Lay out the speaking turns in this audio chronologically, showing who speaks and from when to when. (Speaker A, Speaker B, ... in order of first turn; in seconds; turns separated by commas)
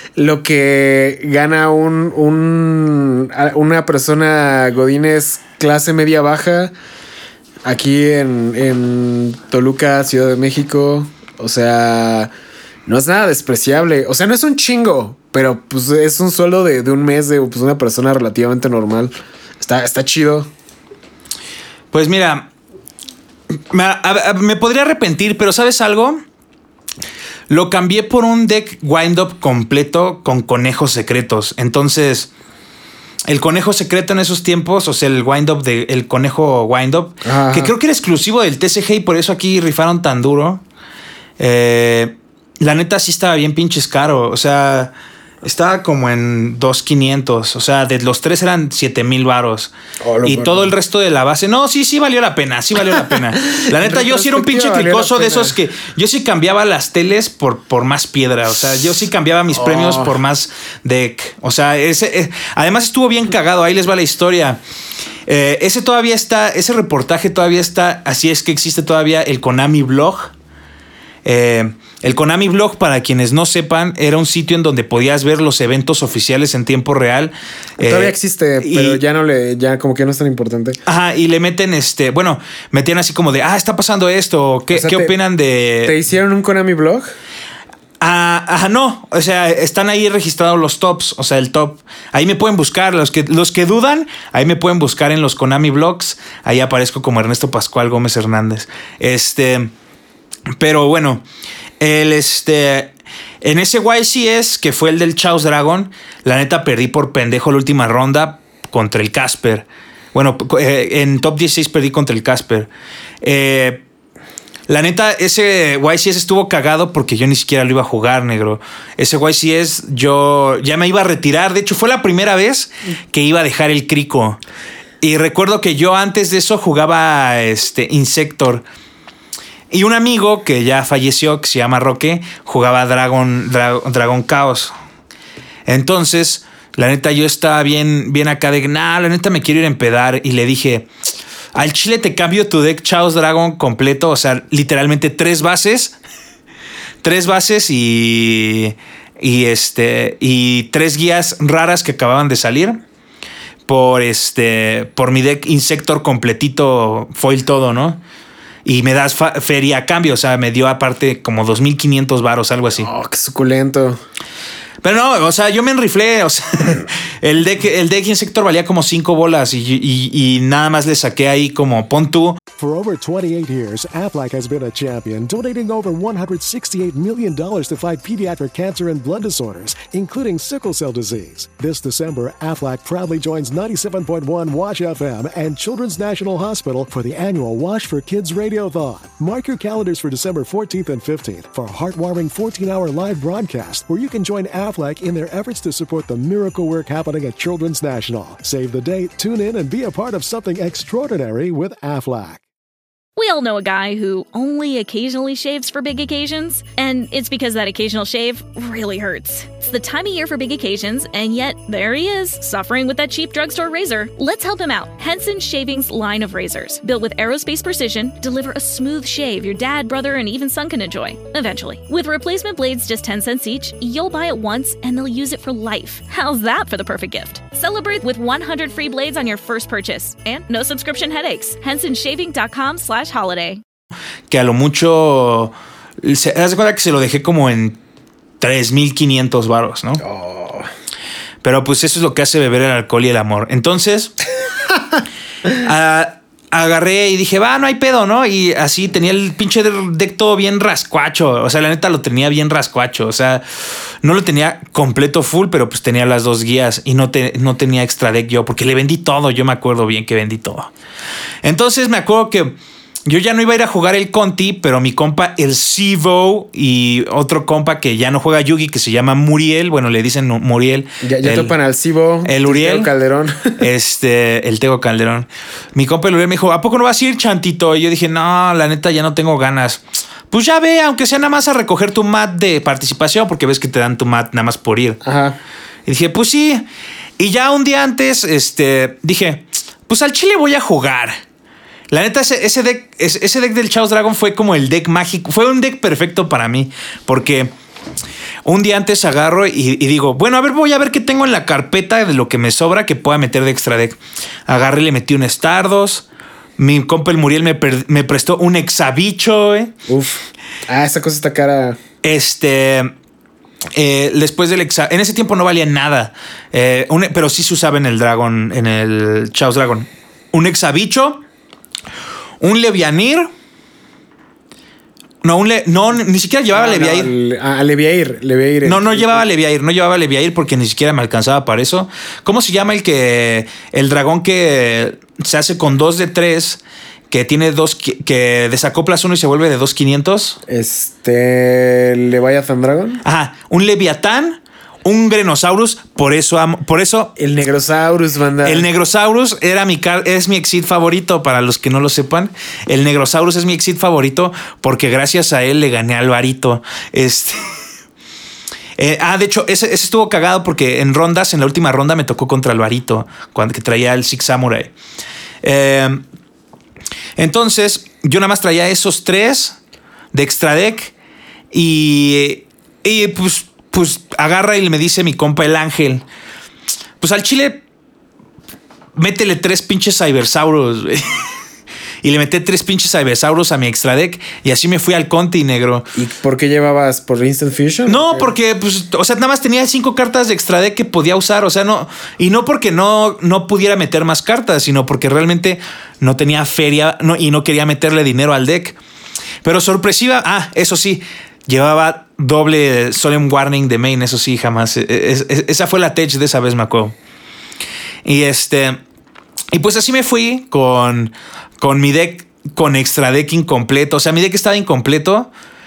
Speaker A: 0.1-6.7, Speaker A: 7.6-12.3, Speaker A: 12.8-20.5, Speaker B: 21.9-22.5, Speaker B: 23.7-26.2, Speaker B: 27.5-32.3, Speaker B: 33.3-40.6, Speaker A: 37.2-37.7, Speaker B: 41.4-44.9, Speaker B: 45.4-49.7, Speaker A: 50.0-50.7, Speaker B: 50.2-64.6, Speaker A: 53.5-55.6, Speaker A: 59.5-60.1, Speaker B: 65.3-70.3, Speaker B: 71.2-79.0, Speaker A: 77.8-80.8, Speaker B: 80.8-86.0, Speaker A: 84.7-85.1, Speaker A: 85.8-87.1, Speaker B: 88.0-99.7, Speaker B: 100.6-101.2, Speaker B: 101.8-112.7, Speaker B: 113.2-113.8, Speaker B: 114.7-124.4, Speaker B: 125.0-128.6, Speaker B: 129.7-134.7, Speaker B: 135.7-140.9, Speaker B: 141.5-145.9, Speaker B: 147.0-152.8, Speaker B: 153.7-158.0, Speaker B: 158.6-162.9, Speaker A: 162.7-164.0, Speaker B: 164.8-172.4, Speaker C: 172.6-202.4, Speaker D: 203.2-233.6, Speaker B: 234.3-237.8, Speaker B: 238.4-240.0, Speaker A: 240.0-240.7, Speaker B: 241.4-244.1, Speaker B: 245.5-253.4, Speaker B: 254.0-260.7, Speaker B: 261.4-262.5, Speaker B: 263.1-271.5, Speaker A: 271.0-273.6, Speaker B: 272.2-272.9, Speaker B: 273.6-285.0, Speaker A: 285.0-285.4, Speaker B: 285.9-286.6, Speaker B: 287.2-291.2, Speaker B: 291.9-297.5, Speaker B: 298.4-306.0, Speaker B: 306.6-309.7, Speaker A: 309.9-311.8, Speaker B: 312.0-312.9, Speaker B: 313.7-321.2, Speaker B: 322.4-323.3, Speaker B: 325.2-327.1, Speaker A: 326.5-329.2, Speaker B: 328.6-340.4, Speaker A: 340.5-343.0, Speaker B: 343.0-347.1, Speaker A: 347.2-348.7, Speaker B: 348.4-357.4, Speaker B: 358.8-364.7, Speaker B: 365.4-366.0, Speaker B: 367.2-369.6, Speaker B: 370.1-370.9, Speaker B: 371.5-376.0, Speaker B: 377.0-377.6, Speaker B: 378.9-381.3, Speaker B: 382.0-385.8, Speaker A: 385.9-388.3, Speaker B: 387.9-398.8, Speaker B: 399.4-406.9, Speaker B: 408.0-408.8, Speaker B: 409.5-415.3